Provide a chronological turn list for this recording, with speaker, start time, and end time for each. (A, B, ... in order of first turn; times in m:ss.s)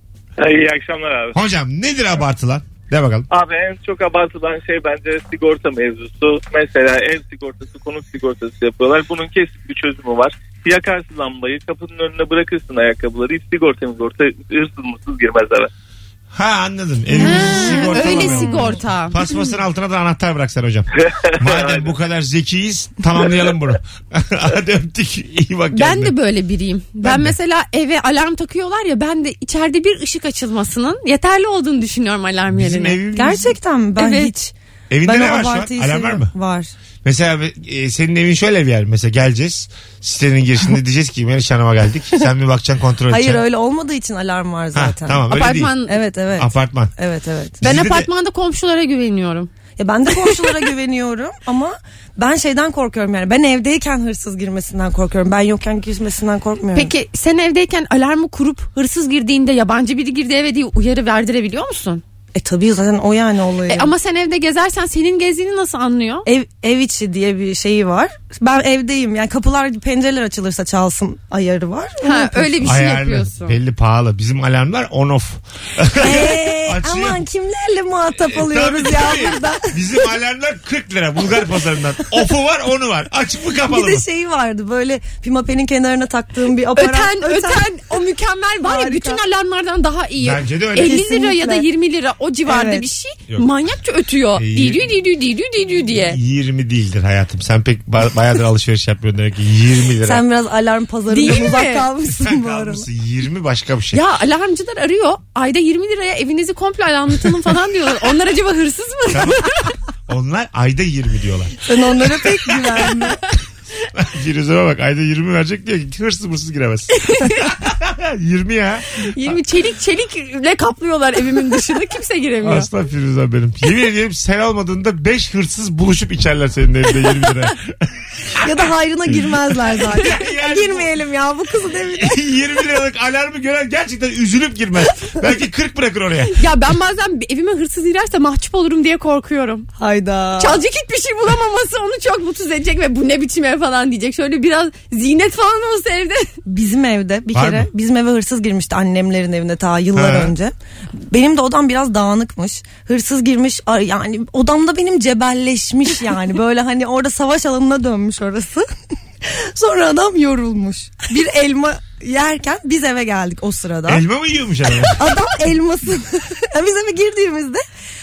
0:00.4-0:01.4 A
0:01.3-0:03.3 B
0:03.3-0:15.7 A
0:16.3-0:26.2 B
0:17.2-0:19.2 C
0:17.2-0:18.8 D
0:21.0-0:21.9 A
0:25.7-0:33.0 C
0:27.0-0:27.4 B
0:32.5-0:33.5 B
0:33.2-0:36.7 D
0:34.0-0:34.3 C
0:34.9-0:36.3 B
0:37.0-0:43.4 B
0:43.1-0:45.3 D
0:44.7-0:45.8 B
0:45.3-0:46.0 C
0:45.8-0:47.6 D
0:46.4-0:46.9 B
0:47.6-0:48.1 B
0:47.6-0:49.5 C
0:49.8-0:56.9 D
0:56.8-1:02.0 C
1:02.4-1:03.9 D
1:03.7-1:06.3 C
1:06.3-1:12.7 D
1:12.0-1:13.6 C
1:12.6-1:17.2 B
1:16.0-1:19.8 D
1:18.2-1:24.1 B
1:23.7-1:27.8 D
1:26.8-1:36.2 C
1:28.6-1:29.2 D
1:30.2-1:31.0 B
1:30.8-1:31.7 D
1:32.5-1:32.8 D
1:34.4-1:34.8 B
1:36.0-1:40.2 B
1:40.0-1:42.9 D
1:41.1-1:41.9 C
1:42.2-1:44.0 B
1:43.9-1:49.8 C
1:49.1-1:49.5 B
1:50.1-1:52.1 B
1:51.7-1:53.2 D
1:53.9-1:59.3 B
1:57.0-1:57.5 C
1:59.0-2:02.7 C
2:02.4-2:08.7 B
2:08.4-2:12.2 D
2:09.2-2:10.9 B
2:11.9-2:16.4 B
2:16.3-2:19.7 C
2:19.8-2:20.6 D
2:20.4-2:26.3 C
2:26.5-2:38.7 D
2:27.3-2:27.7 B
2:30.0-2:30.4 B
2:39.2-2:44.0 D
2:43.9-2:45.2 B
2:44.9-2:47.6 D